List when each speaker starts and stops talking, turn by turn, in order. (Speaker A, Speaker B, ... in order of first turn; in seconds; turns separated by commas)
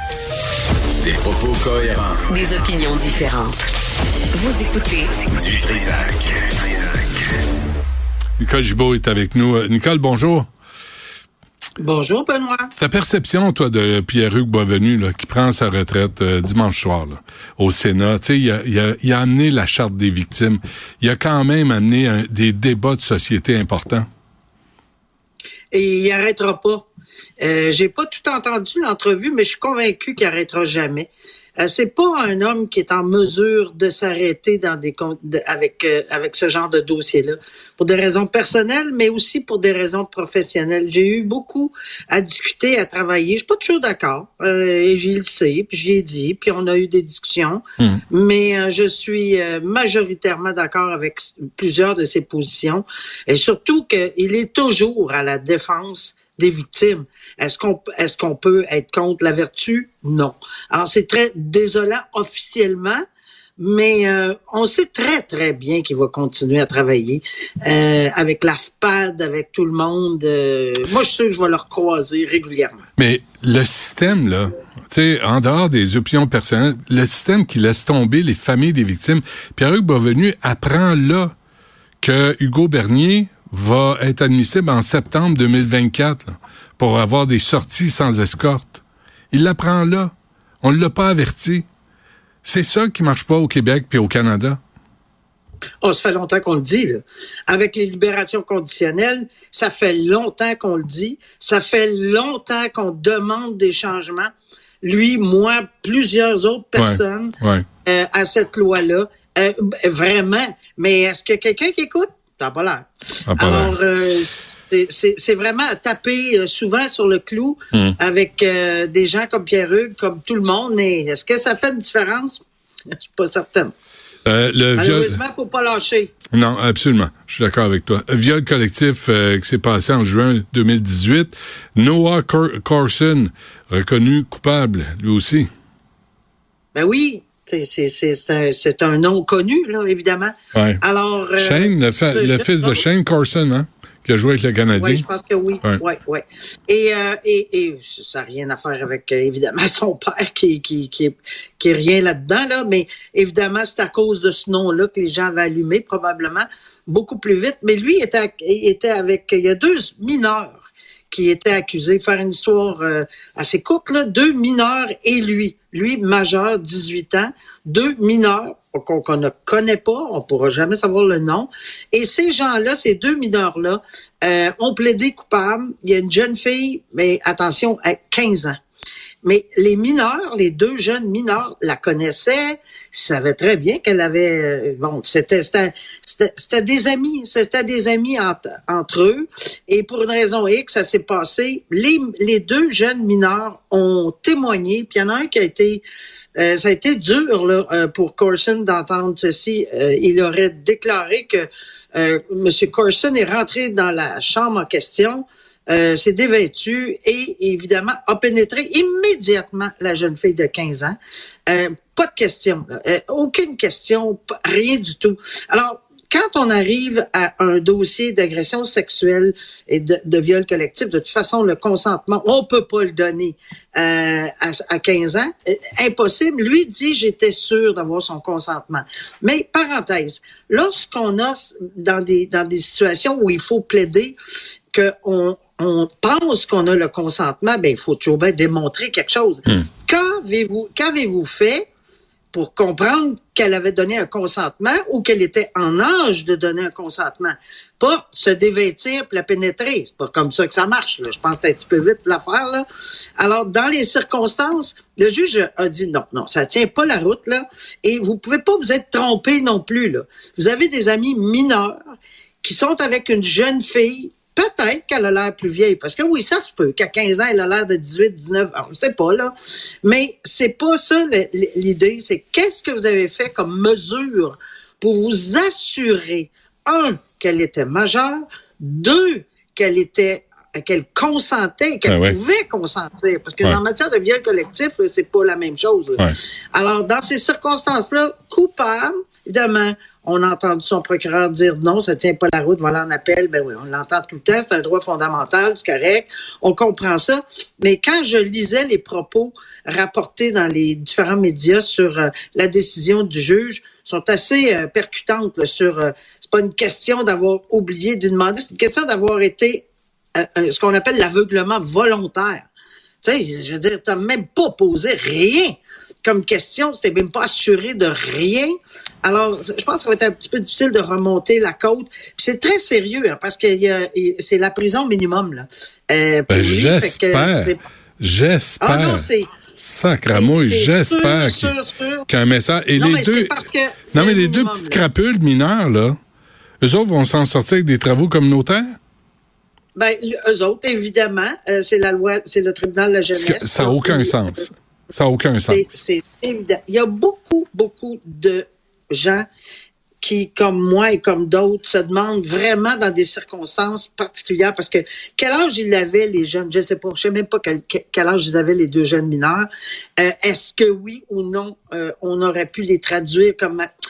Speaker A: 1.0-2.2, Speaker B: 2.3-3.7, Speaker B: 4.3-5.3, Speaker A: 5.3-6.4, Speaker C: 8.4-10.5, Speaker D: 11.8-12.7, Speaker C: 12.8-24.1, Speaker D: 25.7-26.9, Speaker D: 27.4-63.0, Speaker D: 63.6-72.8, Speaker C: 73.0-81.3, Speaker C: 82.0-91.7, Speaker C: 92.4-94.6, Speaker D: 95.8-104.3, Speaker D: 104.8-122.4, Speaker C: 106.8-107.7, Speaker C: 113.3-113.8, Speaker D: 123.0-123.7, Speaker C: 124.3-125.2, Speaker D: 124.8-126.1, Speaker C: 126.3-135.5, Speaker D: 136.7-142.9, Speaker C: 140.6-140.8, Speaker C: 141.4-145.1, Speaker D: 144.8-178.6, Speaker D: 179.2-195.8, Speaker D: 196.4-234.2, Speaker D: 234.7-241.7, Speaker D: 242.3-252.7, Speaker D: 253.2-261.8, Speaker D: 262.4-269.3, Speaker D: 269.8-312.5, Speaker C: 281.9-282.2, Speaker D: 313.0-327.6, Speaker C: 326.3-329.1, Speaker D: 328.6-329.4, Speaker C: 329.6-331.6, Speaker D: 330.1-332.1, Speaker C: 332.1-333.4, Speaker D: 332.8-334.8, Speaker C: 333.9-336.0, Speaker C: 336.6-338.8, Speaker D: 339.8-344.5, Speaker C: 343.1-345.7, Speaker D: 345.5-349.3, Speaker D: 350.0-363.7